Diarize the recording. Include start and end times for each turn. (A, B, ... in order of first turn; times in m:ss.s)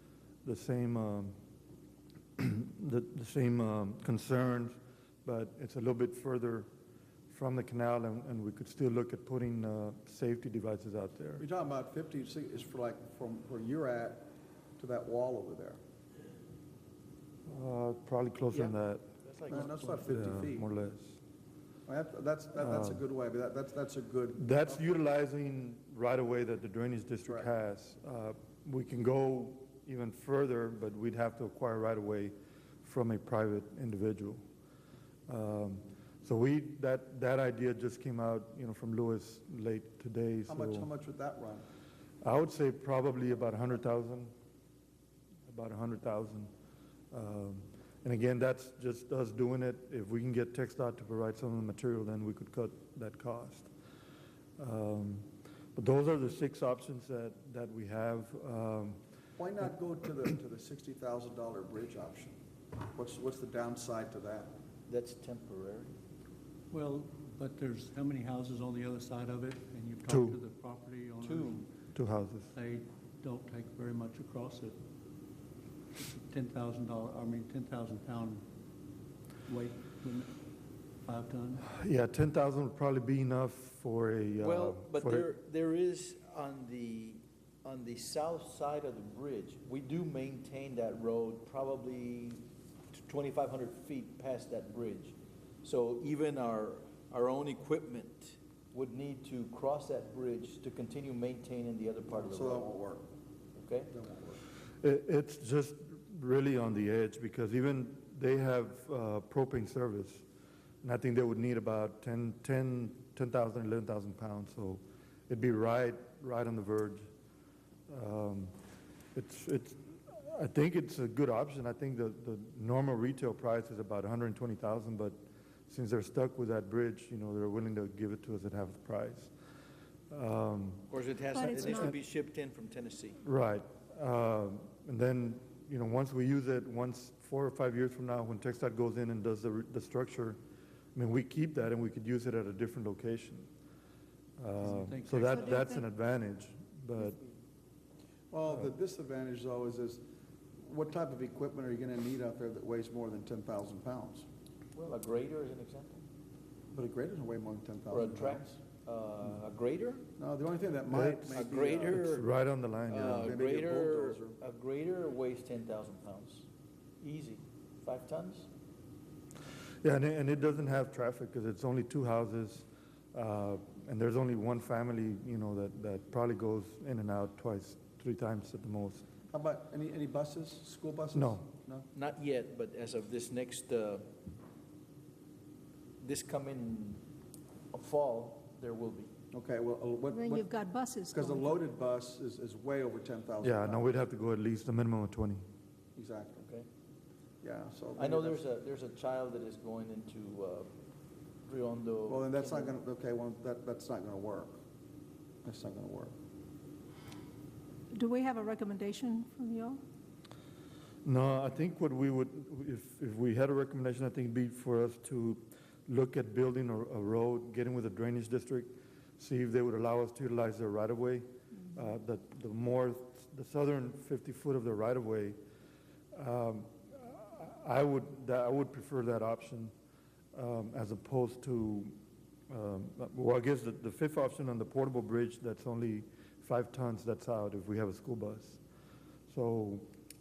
0:00.4-0:01.3 A
0:02.4-0:06.7 A
0:07.3-0:11.4 A
0:11.4-0:15.8 B
0:17.5-0:21.2 A
0:19.2-0:20.0 C
0:19.5-0:20.7 B
0:21.9-0:24.8 B
0:22.6-0:23.0 A
0:24.4-0:34.4 A
0:35.3-0:40.9 A
0:40.5-0:41.6 B
0:42.2-0:44.3 A
0:45.5-0:46.5 A
0:47.1-0:53.7 A
0:54.6-0:59.0 A
0:59.4-1:02.4 B
1:03.0-1:04.5 B
1:04.9-1:06.0 C
1:06.7-1:11.7 D
1:10.1-1:10.4 A
1:11.2-1:11.7 C
1:12.0-1:12.5 A
1:12.5-1:14.8 D
1:15.9-1:18.5 D
1:19.5-1:20.4 D
1:21.0-1:21.7 D
1:21.6-1:25.3 A
1:24.4-1:42.7 C
1:42.1-1:43.0 B
1:43.6-1:43.9 C
1:43.9-1:44.4 B
1:44.8-1:50.2 A
1:50.8-1:57.1 A
1:57.9-1:58.5 A
1:59.2-2:05.2 A
2:05.7-2:09.3 A
2:10.1-2:10.9 A
2:10.9-2:13.2 C
2:11.3-2:11.9 E
2:11.6-2:11.9 A
2:13.2-2:20.4 A
2:21.0-2:23.5 A
2:24.4-2:27.2 A
2:24.6-2:25.8 D
2:28.3-2:30.0 B
2:30.6-2:34.3 B
2:34.8-2:36.0 C
2:36.7-2:38.6 B
2:37.9-2:40.1 C
2:40.2-2:42.0 B
2:40.9-2:43.3 A
2:41.3-2:42.2 C
2:42.9-2:46.5 C
2:43.1-2:44.4 B
2:47.0-2:48.5 C
2:49.8-2:59.1 A
2:59.3-3:01.9 B
3:01.1-3:01.5 A
3:02.0-3:04.1 C
3:06.0-3:07.0 C
3:07.7-3:09.1 C
3:09.3-3:10.5 B
3:10.1-3:11.5 E
3:11.1-3:13.9 B
3:13.4-3:15.4 A
3:16.0-3:16.5 B
3:17.4-3:18.4 B
3:18.0-3:20.7 C
3:21.5-3:22.8 C
3:22.1-3:24.6 B
3:25.4-3:26.1 B
3:27.9-3:29.8 E
3:31.0-3:45.4 A
3:46.1-3:49.7 A
3:50.3-3:52.0 A
3:52.5-3:58.6 A
3:59.3-3:59.9 A